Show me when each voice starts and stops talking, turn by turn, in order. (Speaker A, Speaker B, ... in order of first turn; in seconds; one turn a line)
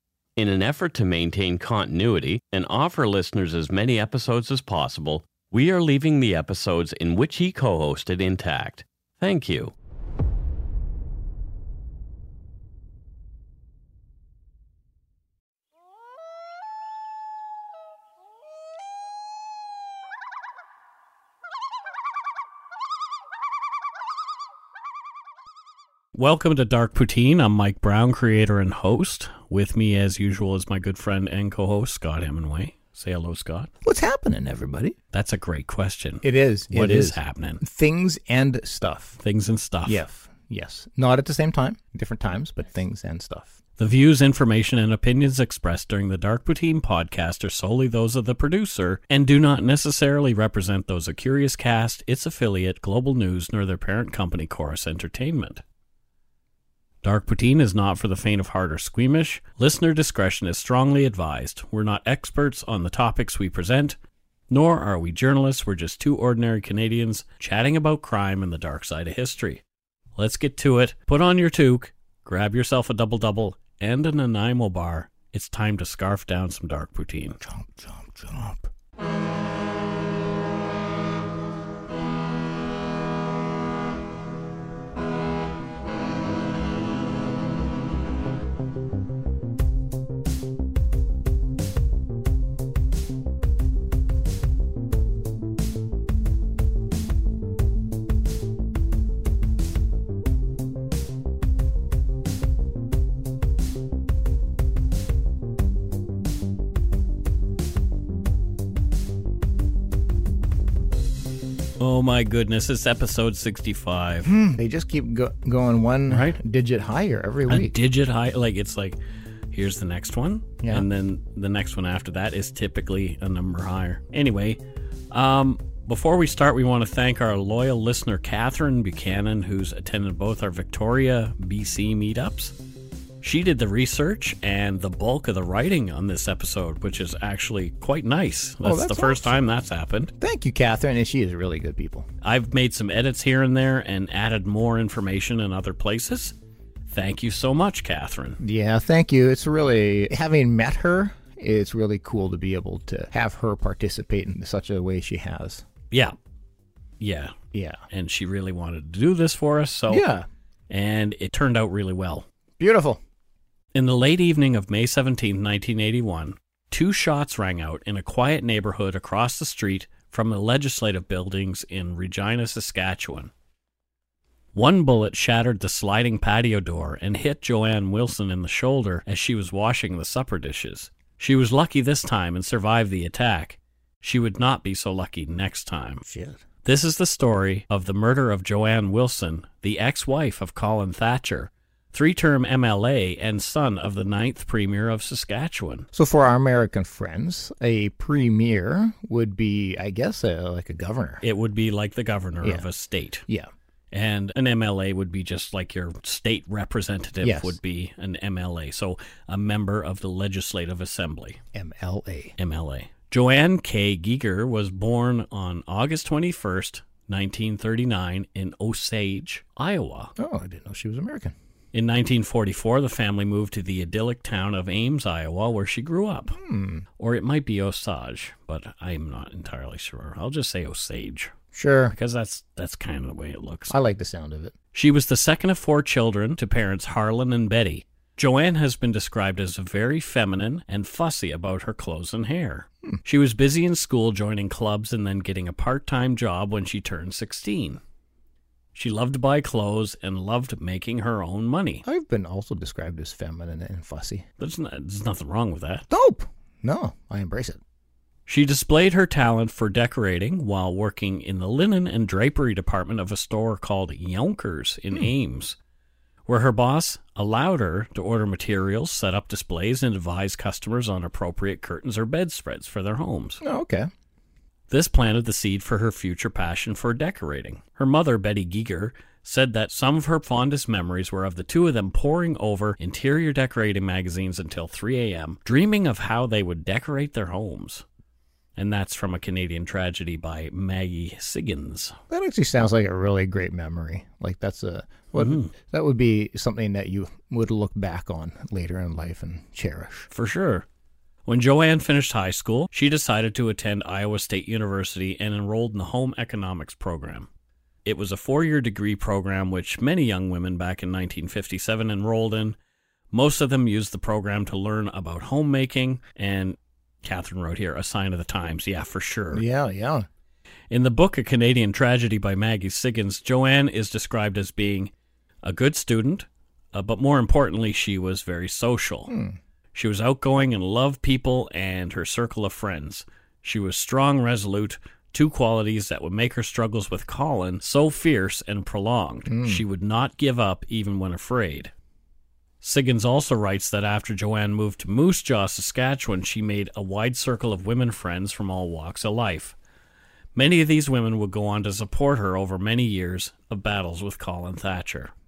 Speaker A: 0.4-9.7
Speaker B: 26.1-33.7
Speaker C: 33.8-35.0
Speaker B: 35.1-37.6
Speaker C: 36.2-39.2
Speaker B: 39.2-40.0
Speaker C: 39.9-43.6
Speaker B: 43.8-55.6
Speaker B: 57.0-64.0
Speaker B: 64.5-69.6
Speaker B: 70.2-77.4
Speaker C: 77.4-78.7
Speaker B: 111.8-114.3
Speaker C: 114.2-117.7
Speaker B: 116.1-116.4
Speaker B: 117.5-119.0
Speaker B: 119.5-124.6
Speaker C: 120.6-120.9
Speaker B: 125.1-132.6
Speaker B: 133.2-140.1
Speaker C: 138.6-139.4
Speaker C: 140.2-142.1
Speaker B: 142.2-146.3
Speaker B: 146.9-148.4
Speaker C: 148.4-155.6
Speaker B: 157.0-157.3
Speaker C: 157.5-157.8
Speaker B: 157.9-160.0
Speaker C: 159.9-160.3
Speaker B: 160.7-162.2
Speaker C: 162.6-163.0
Speaker B: 163.7-173.3
Speaker B: 174.5-186.0
Speaker C: 186.1-186.4
Speaker B: 186.6-195.9
Speaker C: 195.9-201.2
Speaker B: 201.2-203.2
Speaker C: 202.4-202.7
Speaker B: 203.9-211.4
Speaker C: 207.2-207.6
Speaker C: 211.5-212.3
Speaker B: 212.4-220.1
Speaker C: 220.2-221.3
Speaker B: 221.7-226.4
Speaker C: 226.3-226.8
Speaker B: 227.0-231.3
Speaker C: 231.5-231.9
Speaker B: 231.9-233.7
Speaker C: 233.7-234.5
Speaker B: 234.7-247.8
Speaker B: 248.7-251.8
Speaker C: 251.8-254.2
Speaker B: 254.4-255.8
Speaker C: 255.9-257.6
Speaker B: 258.2-265.6
Speaker B: 266.2-273.4
Speaker C: 273.4-273.9
Speaker B: 274.7-287.8
Speaker B: 288.6-292.0
Speaker C: 292.1-300.1
Speaker B: 295.2-295.5
Speaker B: 300.1-300.6
Speaker B: 301.2-307.3
Speaker B: 307.8-312.6
Speaker B: 313.1-319.4
Speaker C: 319.3-320.1
Speaker B: 320.7-324.9
Speaker B: 325.4-329.1
Speaker C: 329.1-329.4
Speaker B: 329.7-341.7
Speaker C: 339.3-339.6
Speaker B: 342.6-349.6
Speaker B: 350.3-355.1